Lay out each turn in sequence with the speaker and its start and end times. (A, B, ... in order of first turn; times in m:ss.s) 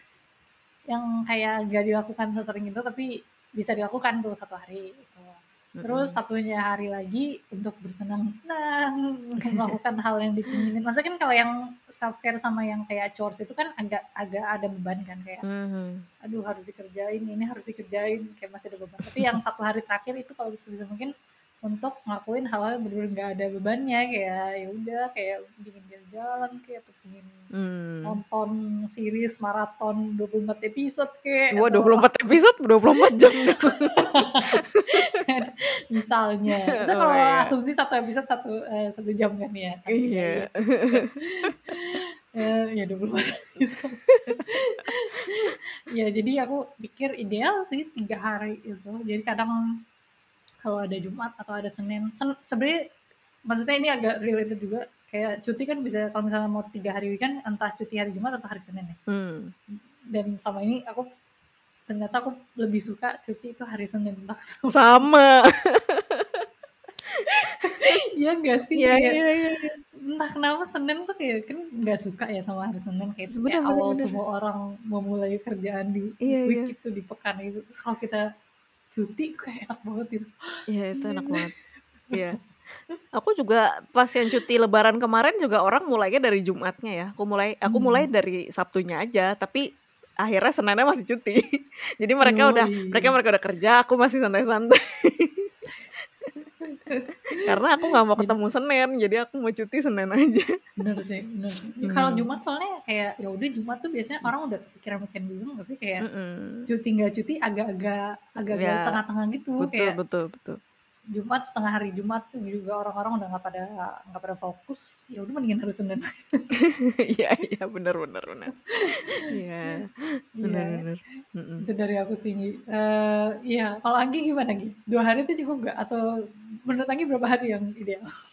0:00.9-0:15.4 A
0:05.8-0:06.2 B
0:09.4-0:09.7 B
0:15.4-0:16.0 B
0:16.2-0:21.1 A
0:21.6-0:27.3 A
0:27.6-0:28.2 B
0:28.0-0:32.1 A
0:31.6-0:34.1 B
0:33.5-0:49.6 A
0:36.8-0:37.5 B
0:39.9-0:41.5 B
0:44.1-0:44.4 B
0:50.6-0:52.8 A
0:53.5-0:59.0 A
0:59.1-0:59.5 B
0:59.7-1:01.0 A
1:01.9-1:04.8 A
1:04.7-1:06.4 B
1:07.3-1:09.2 A
1:08.8-1:09.8 B
1:10.0-1:18.2 A
1:13.3-1:14.2 B
1:16.2-1:16.7 B
1:18.9-1:21.4 A
1:20.7-1:21.5 B
1:22.1-1:22.4 B
1:23.1-1:29.6 B
1:27.7-1:28.1 A
1:30.2-1:31.4 B
1:32.0-1:35.5 B
1:32.2-1:33.1 A
1:36.7-1:38.4 A
1:37.4-1:40.6 B
1:40.8-1:46.0 A
1:41.8-1:42.2 B
1:46.0-1:46.7 B
1:46.7-1:50.0 A
1:48.5-1:49.0 B
1:49.6-1:50.6 B
1:51.1-1:56.5 A
1:56.7-1:58.5 B
1:58.8-1:59.2 A
1:59.2-1:59.9 B
2:00.4-2:00.8 A
2:00.4-2:01.6 B
2:01.6-2:06.0 A
2:06.7-2:08.0 A